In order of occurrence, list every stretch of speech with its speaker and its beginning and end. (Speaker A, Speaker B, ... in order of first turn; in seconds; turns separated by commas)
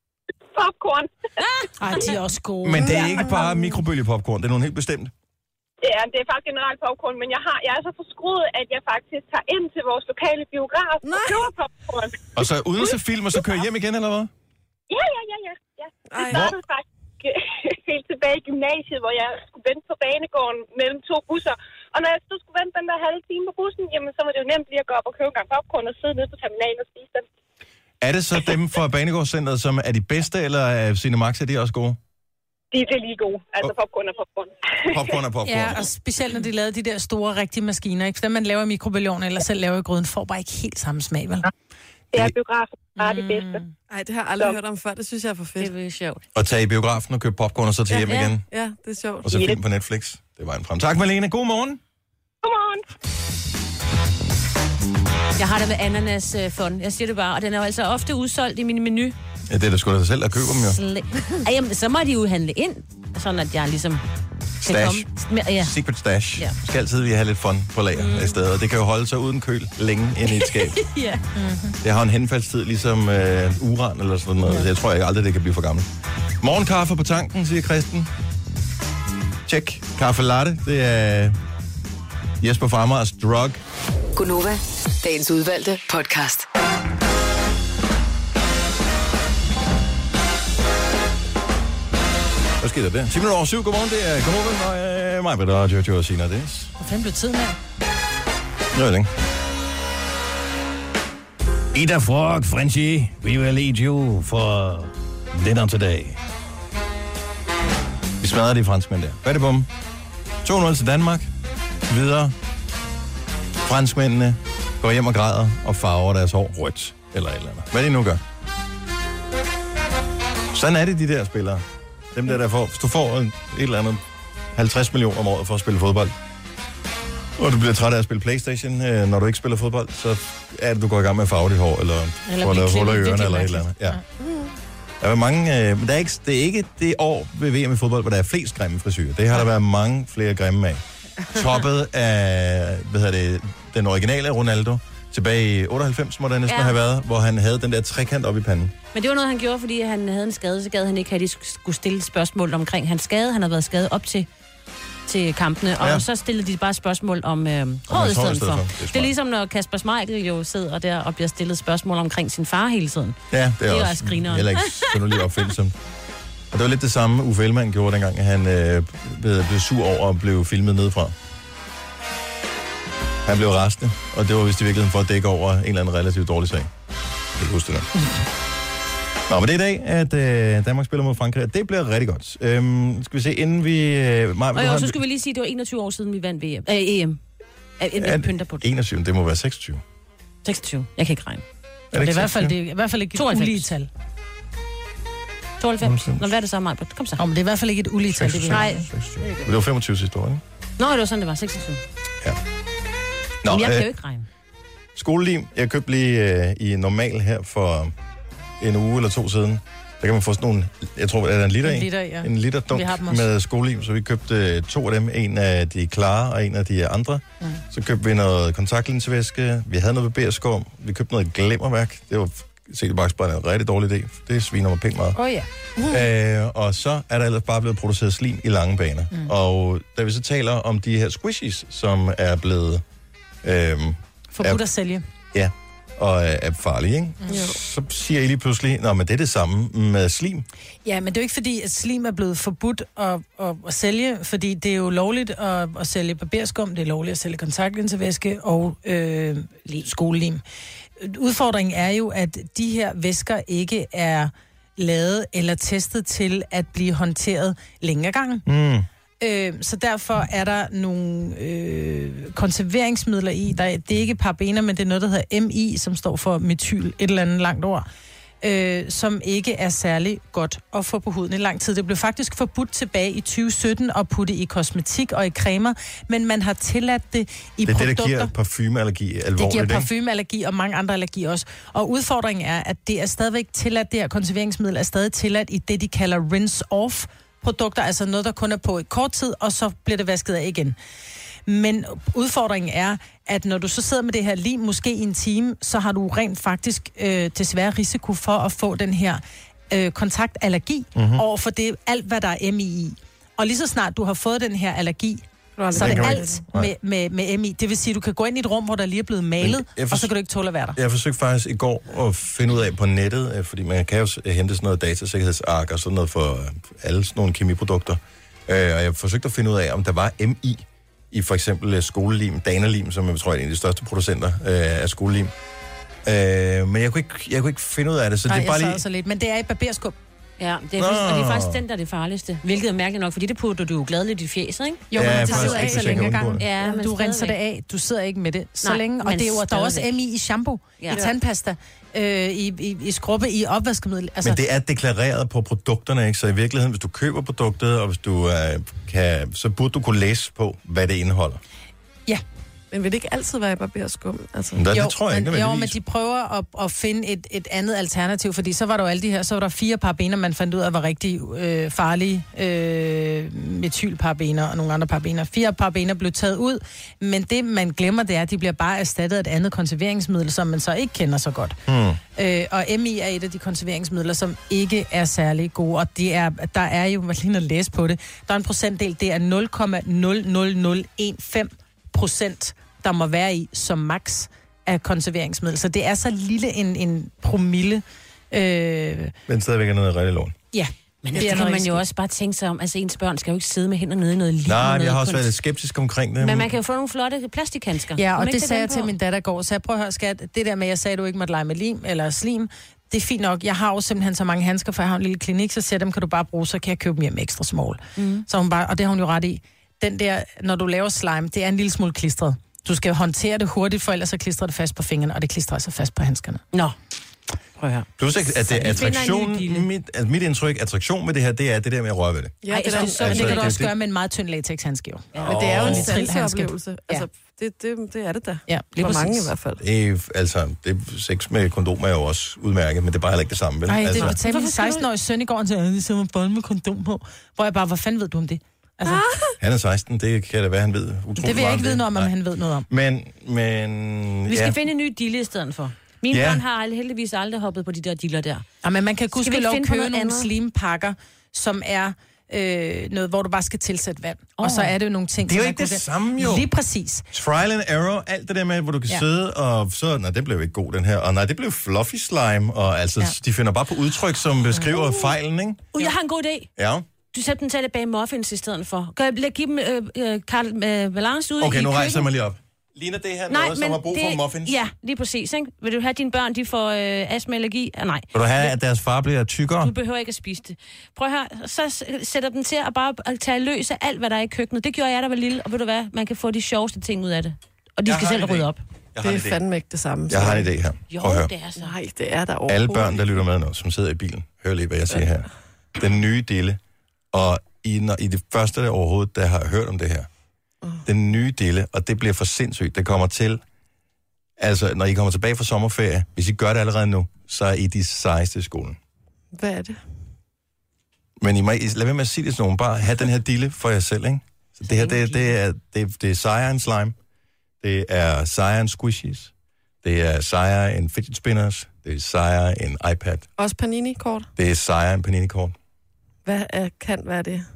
Speaker A: 0.5-1.1, Speaker B: 1.8-3.5, Speaker C: 2.6-5.1, Speaker D: 2.8-3.4, Speaker A: 5.8-12.4, Speaker D: 11.0-11.5, Speaker C: 12.3-14.3, Speaker A: 14.9-27.2, Speaker D: 16.1-16.5, Speaker C: 16.3-16.6, Speaker C: 28.0-32.0, Speaker A: 32.7-35.1, Speaker C: 34.9-35.9, Speaker B: 35.4-41.5, Speaker A: 42.1-43.6, Speaker B: 43.0-43.6, Speaker D: 43.9-45.7, Speaker E: 45.6-46.2, Speaker C: 46.3-48.4, Speaker D: 47.9-49.5, Speaker E: 48.0-48.3, Speaker C: 49.2-51.8, Speaker A: 52.4-52.8, Speaker E: 55.4-59.1, Speaker C: 59.5-60.8, Speaker E: 60.5-64.0, Speaker E: 64.6-65.8, Speaker C: 64.6-70.8, Speaker E: 68.0-68.4, Speaker E: 70.2-71.2, Speaker B: 71.3-71.8, Speaker C: 71.8-75.8, Speaker C: 76.4-78.1, Speaker C: 79.5-81.4, Speaker C: 82.4-83.6, Speaker F: 84.2-86.5, Speaker C: 92.6-96.7, Speaker B: 96.8-97.6, Speaker C: 98.7-99.1, Speaker C: 101.7-106.2, Speaker C: 108.2-109.7, Speaker C: 110.4-111.3, Speaker C: 111.8-112.3, Speaker C: 113.6-118.2, Speaker C: 120.5-124.0, Speaker C: 124.5-126.1, Speaker C: 127.4-134.0, Speaker B: 132.3-134.0, Speaker D: 134.2-134.5, Speaker C: 135.0-148.7, Speaker E: 146.5-146.7, Speaker E: 148.9-154.3, Speaker E: 155.1-165.2, Speaker C: 155.8-156.0, Speaker C: 157.9-159.1, Speaker C: 163.3-165.8, Speaker C: 166.5-171.1, Speaker C: 173.2-176.7, Speaker C: 177.3-177.9, Speaker C: 179.3-185.0, Speaker E: 184.5-187.2, Speaker E: 187.8-188.7, Speaker C: 188.0-189.8, Speaker E: 190.4-191.4, Speaker C: 191.9-192.6, Speaker B: 191.9-193.9, Speaker E: 193.1-193.7, Speaker E: 195.6-197.2, Speaker C: 195.8-196.2, Speaker B: 197.2-198.8, Speaker C: 198.1-200.4, Speaker E: 198.5-199.5, Speaker E: 200.8-201.8, Speaker C: 203.4-203.9, Speaker E: 203.5-204.3, Speaker C: 204.9-207.9, Speaker C: 208.6-225.2, Speaker B: 211.6-213.3, Speaker B: 225.1-225.5, Speaker C: 225.9-232.8, Speaker C: 233.4-234.6, Speaker B: 234.3-235.0, Speaker C: 235.3-240.4, Speaker D: 237.3-237.6, Speaker B: 240.8-250.4, Speaker B: 251.0-258.4, Speaker C: 258.4-258.9, Speaker B: 259.2-267.9, Speaker B: 268.4-278.3, Speaker C: 277.6-279.9, Speaker B: 279.4-290.8, Speaker B: 291.5-310.8, Speaker C: 300.9-301.2, Speaker D: 305.6-306.4, Speaker C: 305.7-306.7, Speaker C: 309.4-310.1, Speaker C: 310.8-325.3, Speaker C: 326.0-328.8, Speaker B: 328.3-329.9, Speaker E: 330.4-337.4, Speaker C: 330.8-331.6, Speaker B: 334.9-344.4, Speaker C: 334.9-336.4, Speaker D: 335.0-335.7, Speaker E: 338.6-339.9, Speaker E: 340.8-341.1, Speaker C: 344.2-351.4, Speaker D: 352.7-354.7, Speaker C: 354.5-355.8, Speaker B: 354.7-371.6, Speaker C: 371.7-372.0, Speaker B: 372.1-389.1, Speaker C: 389.3-390.3, Speaker B: 390.5-391.8, Speaker E: 391.0-395.3, Speaker C: 394.4-396.5, Speaker E: 396.2-398.9, Speaker B: 398.0-416.4, Speaker E: 408.0-408.2, Speaker E: 417.6-419.7, Speaker C: 418.0-422.4, Speaker D: 422.4-423.6, Speaker E: 422.5-423.6, Speaker B: 422.7-427.1, Speaker C: 422.9-423.7, Speaker D: 425.2-429.6, Speaker C: 425.2-425.9, Speaker B: 428.5-429.3, Speaker C: 429.6-434.2, Speaker B: 433.7-439.0, Speaker E: 434.0-434.9, Speaker D: 438.8-439.4, Speaker C: 439.4-442.1, Speaker B: 441.2-442.7, Speaker C: 442.7-444.6, Speaker E: 444.3-448.4, Speaker C: 446.1-446.4, Speaker B: 448.6-457.1, Speaker E: 449.1-450.3, Speaker E: 454.4-454.7, Speaker C: 455.2-456.5, Speaker C: 457.1-465.7, Speaker E: 465.8-466.5, Speaker C: 466.6-466.9, Speaker E: 467.1-472.1, Speaker C: 471.4-474.6, Speaker E: 473.3-478.5, Speaker C: 478.1-479.7, Speaker E: 479.6-488.6, Speaker C: 487.9-489.4, Speaker D: 489.0-490.5, Speaker C: 490.1-491.3, Speaker E: 490.9-491.7, Speaker D: 491.6-493.2, Speaker C: 492.5-496.6, Speaker C: 497.1-500.1, Speaker C: 500.8-503.4, Speaker C: 504.4-508.8, Speaker D: 509.3-509.8, Speaker C: 511.2-517.0, Speaker E: 514.7-515.1, Speaker C: 517.6-519.3, Speaker C: 519.8-523.3, Speaker D: 523.4-524.3, Speaker C: 524.4-525.5, Speaker D: 526.2-527.5